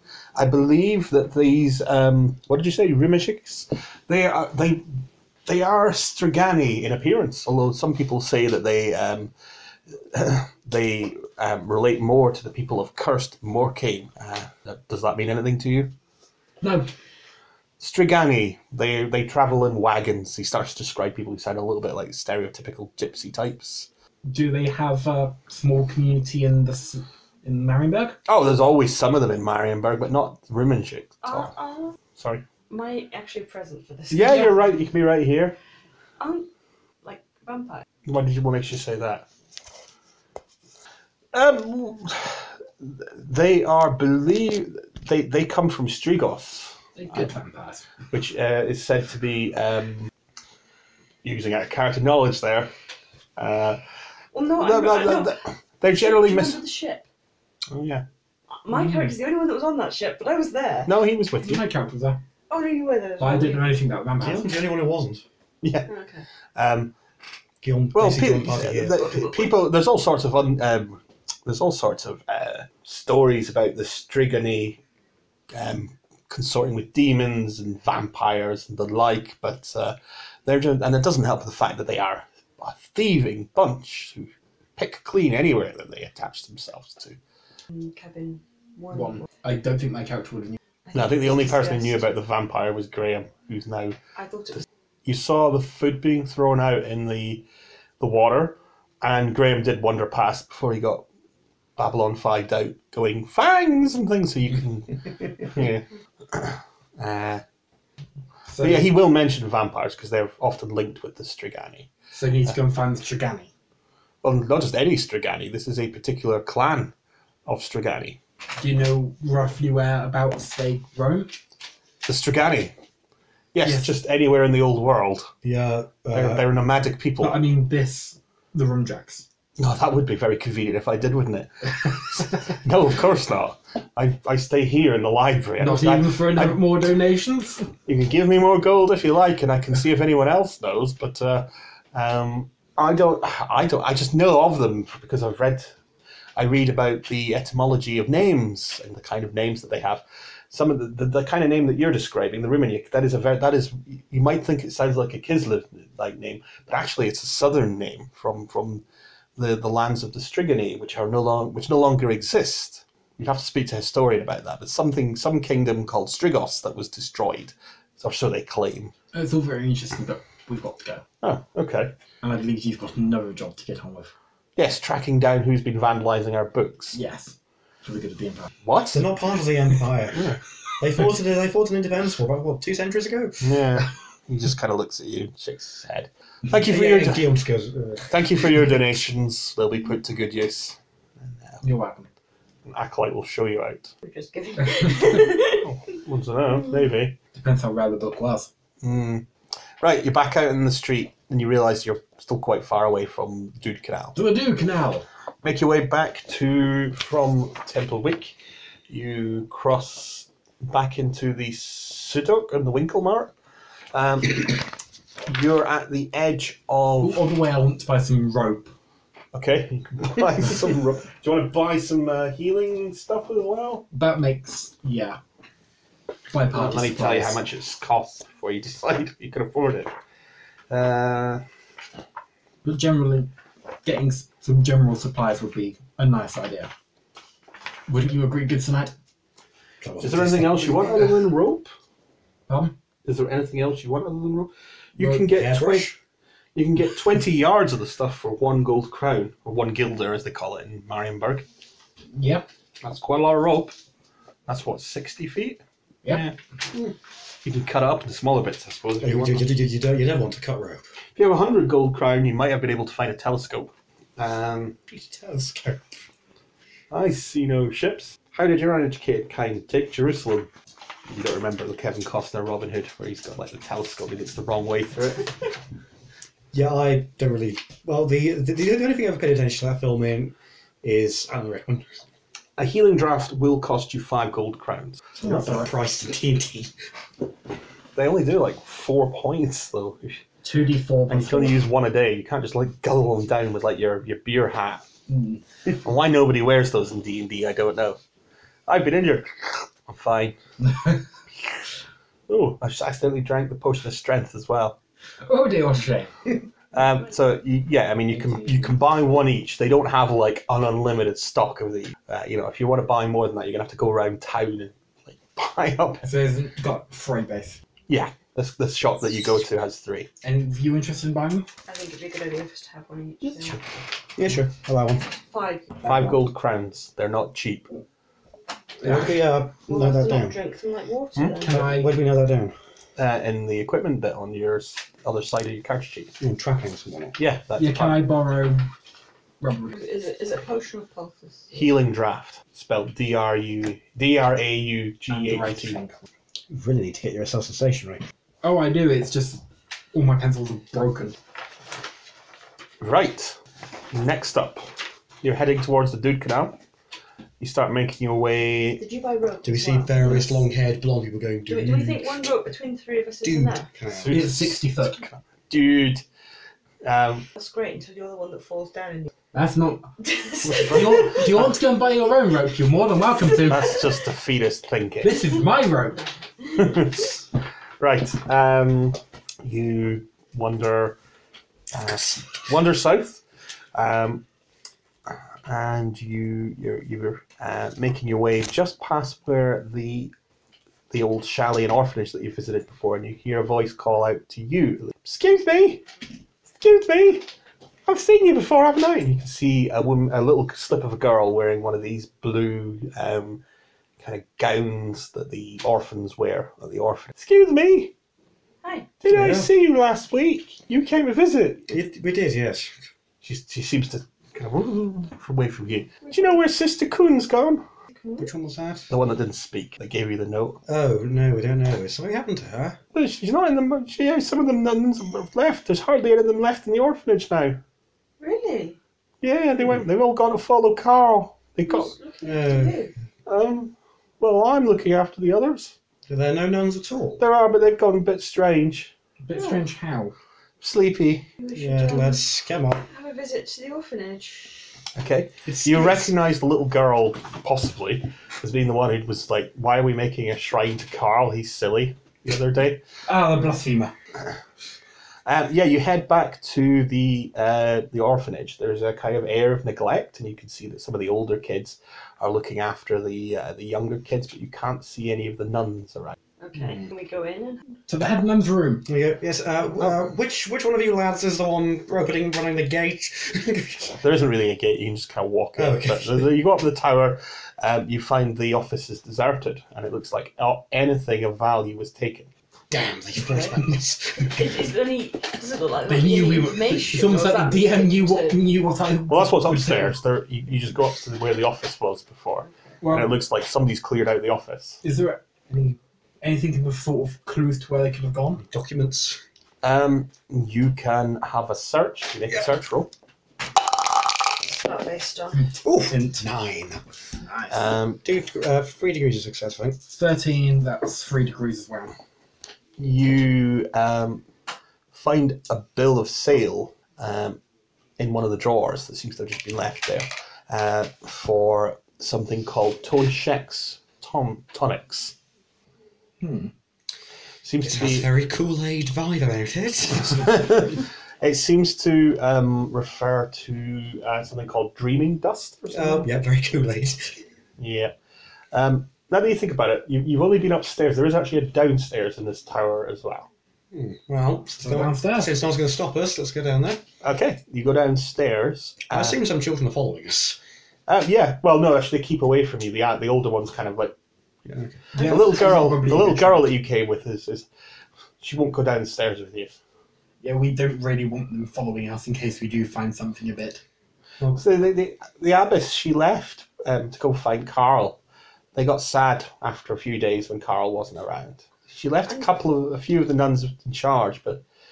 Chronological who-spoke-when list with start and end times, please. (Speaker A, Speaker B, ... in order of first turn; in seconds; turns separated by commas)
Speaker A: 0.3-9.3, Speaker A: 10.1-15.9, Speaker B: 16.6-16.9, Speaker A: 17.8-23.9, Speaker B: 24.2-28.2, Speaker A: 28.3-31.5, Speaker C: 31.2-31.9, Speaker A: 32.2-32.4, Speaker C: 32.7-34.6, Speaker A: 34.1-35.5, Speaker B: 34.2-34.7, Speaker C: 36.2-36.5, Speaker C: 37.0-37.8, Speaker A: 38.0-39.3, Speaker A: 41.3-47.3, Speaker B: 47.0-47.9, Speaker A: 48.1-50.1, Speaker A: 51.2-52.7, Speaker A: 53.4-53.8, Speaker C: 54.3-57.0, Speaker A: 54.5-56.6, Speaker A: 57.7-58.0, Speaker C: 58.6-60.9, Speaker B: 58.7-59.1, Speaker A: 60.9-61.6, Speaker B: 61.4-62.2, Speaker C: 62.5-63.8, Speaker B: 63.2-64.5, Speaker D: 64.2-65.2, Speaker A: 65.6-65.9, Speaker C: 65.9-66.2, Speaker A: 66.5-66.9, Speaker D: 67.6-69.2, Speaker A: 67.9-74.8, Speaker A: 75.5-87.2, Speaker C: 87.7-89.2, Speaker B: 88.9-90.6, Speaker C: 90.8-92.0, Speaker A: 90.9-94.0, Speaker C: 94.2-94.6, Speaker A: 95.0-97.5, Speaker A: 98.0-101.0, Speaker A: 101.8-107.4, Speaker B: 108.5-108.9, Speaker A: 108.6-111.9, Speaker B: 112.1-113.5, Speaker A: 114.2-116.9, Speaker A: 117.5-118.2, Speaker B: 118.6-121.3, Speaker A: 122.0-122.7, Speaker A: 123.5-125.3, Speaker B: 123.6-123.9, Speaker D: 125.4-126.5, Speaker A: 126.1-127.4, Speaker B: 127.2-129.2, Speaker A: 129.6-136.7, Speaker B: 135.6-137.7, Speaker A: 137.8-145.7, Speaker A: 146.4-158.8, Speaker A: 159.4-168.9, Speaker B: 169.1-171.0, Speaker A: 171.2-171.9, Speaker B: 172.2-174.1, Speaker A: 174.6-177.0, Speaker B: 176.9-178.5, Speaker A: 178.6-179.0, Speaker D: 178.9-180.3, Speaker A: 180.1-180.4, Speaker D: 180.8-183.4, Speaker A: 183.4-187.3, Speaker D: 186.5-188.2, Speaker A: 188.1-191.6, Speaker B: 191.6-192.1, Speaker A: 192.7-193.9, Speaker C: 194.0-195.7, Speaker A: 195.5-197.1, Speaker B: 197.3-198.5, Speaker A: 198.8-199.2, Speaker A: 199.8-204.2, Speaker B: 204.1-205.1, Speaker A: 205.4-208.3, Speaker A: 208.9-213.3, Speaker A: 213.9-214.7, Speaker A: 215.3-217.2, Speaker B: 217.0-218.7, Speaker A: 219.3-223.8, Speaker B: 223.9-225.2, Speaker B: 226.3-227.4, Speaker A: 226.5-229.9, Speaker A: 230.7-231.4, Speaker B: 232.6-233.3, Speaker B: 233.8-236.7, Speaker B: 237.9-238.9, Speaker D: 239.8-241.1, Speaker A: 240.0-241.7, Speaker B: 242.5-242.7, Speaker A: 243.0-245.9, Speaker B: 245.0-245.2, Speaker D: 245.3-245.9, Speaker A: 246.5-251.4, Speaker B: 252.1-252.5, Speaker A: 252.8-253.7, Speaker A: 254.5-256.9, Speaker A: 257.4-259.4, Speaker D: 259.0-260.8, Speaker A: 261.1-264.8, Speaker D: 264.9-265.8, Speaker A: 266.9-270.5, Speaker A: 271.1-275.5, Speaker D: 276.5-282.0, Speaker A: 282.6-285.5, Speaker B: 285.2-285.7, Speaker D: 285.2-286.7, Speaker A: 287.9-290.2, Speaker B: 290.4-291.6, Speaker A: 291.1-294.9, Speaker B: 295.1-295.4, Speaker A: 295.6-298.0, Speaker A: 298.7-300.4, Speaker A: 302.3-304.8, Speaker B: 305.2-306.3, Speaker A: 306.7-316.1, Speaker B: 308.1-308.8, Speaker B: 316.0-317.6, Speaker A: 317.9-320.1, Speaker B: 320.2-321.5, Speaker C: 321.6-323.6, Speaker D: 324.1-325.1, Speaker C: 325.2-325.8, Speaker A: 325.8-327.7, Speaker D: 328.8-330.4, Speaker B: 328.8-329.1, Speaker C: 329.7-331.6, Speaker B: 331.4-331.9, Speaker D: 331.4-332.6, Speaker A: 332.9-336.1, Speaker D: 336.2-337.1, Speaker A: 337.2-338.0, Speaker B: 337.6-338.7, Speaker B: 339.4-339.7, Speaker C: 339.7-341.6, Speaker A: 341.5-345.8, Speaker B: 345.1-346.0, Speaker D: 346.5-348.0, Speaker B: 348.4-351.2, Speaker A: 352.8-353.4, Speaker A: 353.9-354.7, Speaker A: 355.2-356.6, Speaker A: 357.4-358.8, Speaker C: 358.8-359.9, Speaker D: 359.4-362.2, Speaker B: 360.0-360.4, Speaker C: 361.5-363.7, Speaker D: 363.2-364.4, Speaker A: 363.9-366.0, Speaker B: 364.1-365.0, Speaker A: 366.8-367.2, Speaker C: 367.3-369.1, Speaker B: 369.3-369.9, Speaker C: 370.0-371.2, Speaker A: 370.5-371.2, Speaker B: 370.5-373.7, Speaker A: 373.5-375.1, Speaker B: 375.0-376.0, Speaker A: 376.5-377.2, Speaker A: 377.8-381.0, Speaker A: 381.7-383.2, Speaker A: 383.7-384.2, Speaker A: 385.1-390.1, Speaker A: 390.9-395.8, Speaker A: 396.6-397.3, Speaker A: 397.9-403.4, Speaker A: 404.0-407.9, Speaker C: 408.6-408.9, Speaker A: 409.0-411.6, Speaker D: 409.1-409.5, Speaker D: 411.7-412.7, Speaker A: 413.2-417.6, Speaker C: 417.9-418.3, Speaker D: 418.2-418.9, Speaker A: 418.9-420.6, Speaker D: 420.6-422.8, Speaker A: 422.9-427.6, Speaker C: 428.2-428.8, Speaker A: 429.2-431.9, Speaker C: 431.7-432.9, Speaker D: 432.2-432.8, Speaker A: 433.2-435.7, Speaker D: 436.1-437.2, Speaker A: 437.2-438.9, Speaker B: 439.2-440.1, Speaker C: 439.3-439.6, Speaker A: 440.6-441.3, Speaker C: 441.4-442.2, Speaker D: 441.5-442.9, Speaker C: 442.9-444.6, Speaker A: 444.9-452.8, Speaker B: 445.5-446.0, Speaker B: 453.1-453.9, Speaker A: 455.2-466.1, Speaker C: 466.4-467.7, Speaker B: 467.9-468.9, Speaker D: 468.9-474.0, Speaker A: 474.0-482.3, Speaker D: 475.6-476.3, Speaker D: 482.7-484.6, Speaker C: 483.2-483.6, Speaker C: 484.2-488.4, Speaker B: 485.9-490.0, Speaker A: 489.1-494.8, Speaker B: 492.8-493.1, Speaker B: 494.8-495.2, Speaker D: 495.5-495.8, Speaker B: 496.2-498.4, Speaker D: 498.4-499.2, Speaker A: 499.6-502.9, Speaker C: 504.5-505.5, Speaker D: 505.6-506.8, Speaker B: 505.9-506.2, Speaker B: 507.2-507.6, Speaker A: 507.5-508.0, Speaker D: 508.0-509.8, Speaker B: 509.9-511.9, Speaker A: 512.8-514.2, Speaker A: 514.9-517.4, Speaker A: 518.0-525.1, Speaker B: 526.2-526.5, Speaker A: 527.4-528.1, Speaker D: 527.6-530.5, Speaker A: 530.0-536.1, Speaker D: 535.7-537.2, Speaker A: 537.6-537.9, Speaker A: 538.5-543.3, Speaker D: 543.7-546.8, Speaker B: 544.6-545.3, Speaker A: 547.0-549.2, Speaker D: 548.9-550.4, Speaker A: 550.9-553.9, Speaker D: 554.5-554.8, Speaker B: 554.9-556.5, Speaker A: 555.0-557.5, Speaker A: 558.2-559.6, Speaker B: 560.2-563.6, Speaker A: 564.3-568.0, Speaker A: 568.5-574.4